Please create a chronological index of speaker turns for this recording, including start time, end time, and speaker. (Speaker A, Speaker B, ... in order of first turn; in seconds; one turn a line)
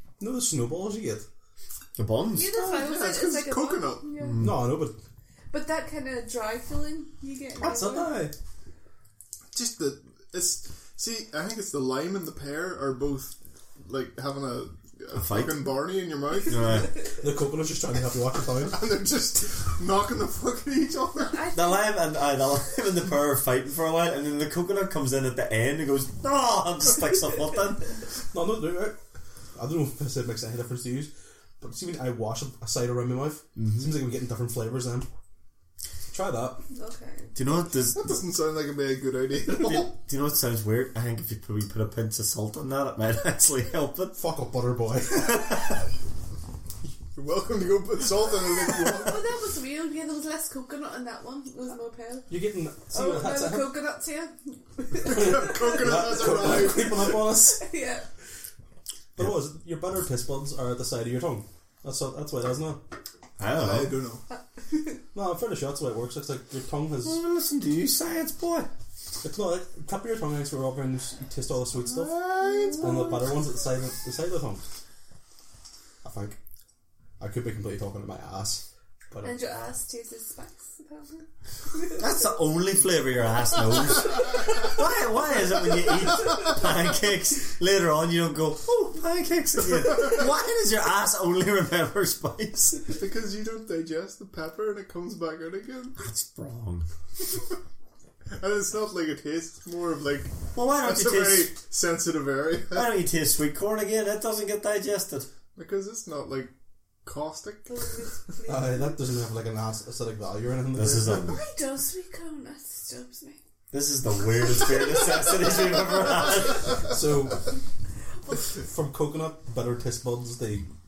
Speaker A: 0.2-1.2
Speaker B: 2.0-2.5
Speaker C: 2.3-4.5
Speaker D: 2.7-4.1
Speaker B: 4.2-4.7
Speaker A: 4.4-5.0
Speaker C: 5.5-8.2
Speaker A: 7.6-8.3
Speaker D: 9.5-17.0
Speaker B: 15.1-15.7
Speaker B: 16.4-17.0
Speaker A: 17.2-18.8
Speaker D: 18.6-21.5
Speaker C: 21.3-21.9
Speaker B: 21.5-28.0
Speaker A: 28.3-29.0
Speaker A: 29.6-35.1
Speaker B: 33.6-33.9
Speaker A: 36.1-36.6
Speaker C: 36.7-37.3
Speaker B: 37.4-38.1
Speaker D: 37.9-40.0
Speaker B: 39.5-44.2
Speaker A: 44.2-45.5
Speaker B: 45.1-45.9
Speaker D: 47.1-49.2
Speaker C: 48.9-52.3
Speaker A: 52.3-53.8
Speaker C: 52.9-58.1
Speaker D: 55.0-57.1
Speaker A: 55.0-57.6
Speaker A: 59.2-62.8
Speaker B: 63.4-63.9
Speaker D: 63.5-64.2
Speaker C: 64.7-65.0
Speaker A: 65.1-67.2
Speaker B: 67.0-68.7
Speaker A: 69.2-72.2
Speaker D: 71.8-73.2
Speaker C: 72.4-72.9
Speaker A: 72.7-74.6
Speaker A: 76.0-76.4
Speaker A: 77.2-79.3
Speaker C: 79.2-82.0
Speaker B: 82.0-92.9
Speaker D: 92.9-96.0
Speaker B: 96.0-96.9
Speaker D: 98.3-102.9
Speaker B: 100.5-101.5
Speaker B: 102.7-105.3
Speaker D: 105.6-106.5
Speaker D: 107.0-107.8
Speaker C: 107.7-109.0
Speaker A: 108.5-111.3
Speaker B: 110.7-111.4
Speaker C: 111.2-113.4
Speaker B: 113.7-116.8
Speaker A: 116.8-117.5
Speaker A: 118.5-120.7